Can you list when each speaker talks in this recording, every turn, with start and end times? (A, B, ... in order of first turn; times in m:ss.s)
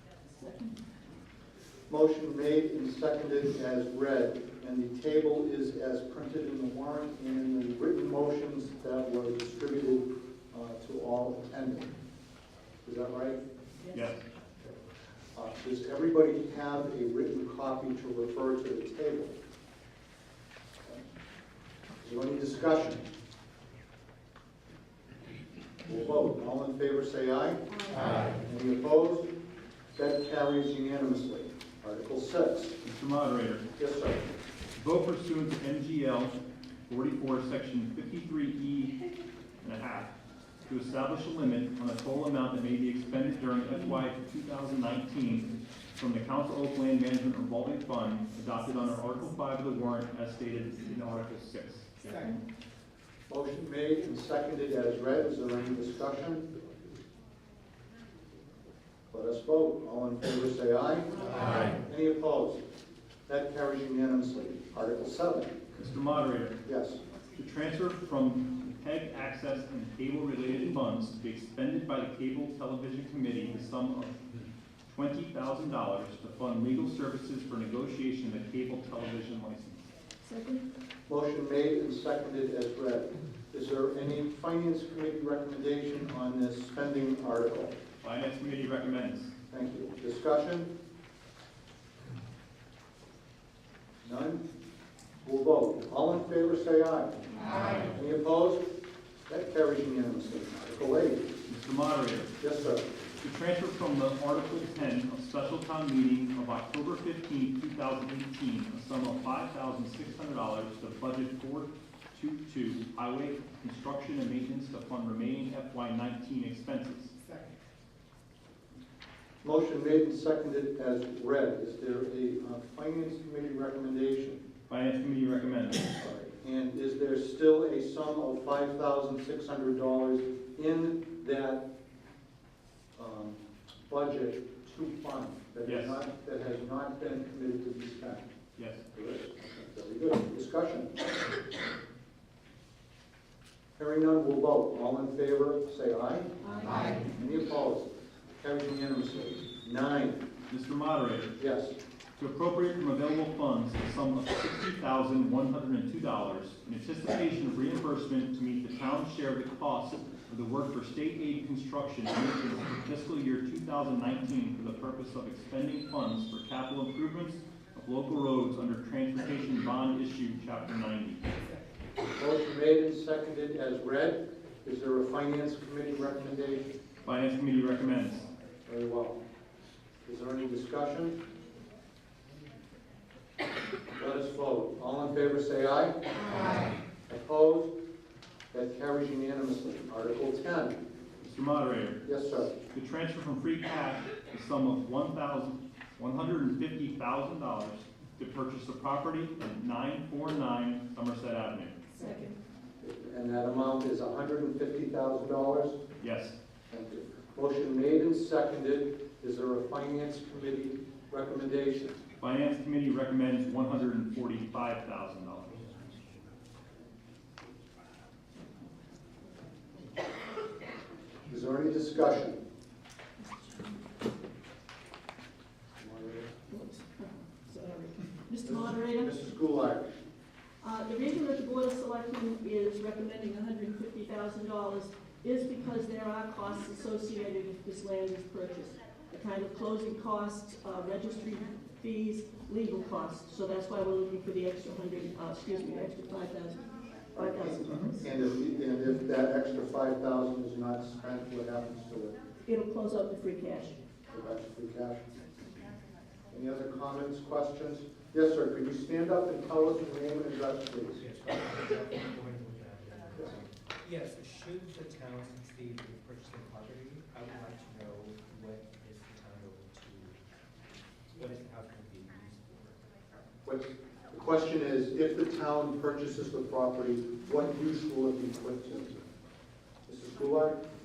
0:00.3-0:00.8 A
0:01.9-0:11.9 B
0:12.8-0:13.4 B
0:13.9-0:14.2 C
0:15.3-0:19.4 B
0:22.0-0:23.0 B
0:25.8-0:29.3 B
0:27.7-0:28.2 A
0:30.0-0:32.8 B
0:32.8-0:33.6 C
0:33.8-0:34.2 B
0:34.8-0:36.4 C
0:36.9-0:39.0 C
0:39.6-0:40.1 C
0:40.6-0:51.9 C
0:52.0-0:52.4 A
0:53.3-0:56.4 B
0:59.1-1:02.6 B
1:03.3-1:05.5 B
1:05.8-1:06.6 C
1:06.6-1:07.0 B
1:07.4-1:14.2 C
1:14.9-1:19.8 C
1:20.2-1:20.6 A
1:21.1-1:27.7 B
1:28.0-1:29.3 C
1:29.5-1:30.7 B
1:34.0-1:34.4 B
1:35.2-1:38.7 B
1:39.3-1:41.3 B
1:41.5-1:42.4 C
1:42.4-1:42.9 B
1:43.2-1:57.1 C
1:59.4-2:04.4 B
2:04.7-2:05.9 C
2:05.9-2:11.7 B
2:13.0-2:18.2 B
2:15.6-2:16.0 C
2:18.6-2:18.8 C
2:18.9-2:20.9 B
2:23.8-2:30.2 B
2:26.4-2:27.0 A
2:30.5-2:31.4 C
2:31.4-2:31.7 B
2:32.2-2:51.2 C
2:52.2-2:56.7 B
2:57.0-2:58.3 C
2:58.6-2:59.2 B
3:00.0-3:01.2 B
3:03.9-3:07.7 B
3:08.5-3:10.8 B
3:11.2-3:12.0 C
3:12.0-3:12.5 B
3:12.7-3:21.8 C
3:22.0-3:22.4 A
3:22.8-3:25.8 B
3:26.0-3:26.3 C
3:26.7-3:32.0 B
3:32.2-3:35.8 C
3:41.3-3:42.4 B
3:43.2-3:43.8 A
3:45.8-3:46.3 B
3:46.5-3:49.1 A
3:48.4-3:49.9 B
3:50.6-4:08.0 A
4:07.1-4:12.2 B
4:12.4-4:13.8 A
4:14.1-4:15.2 B
4:16.3-4:21.0 B
4:21.0-4:30.2 D
4:31.1-4:32.8 D
4:33.4-4:39.0 B
4:39.9-4:40.6 B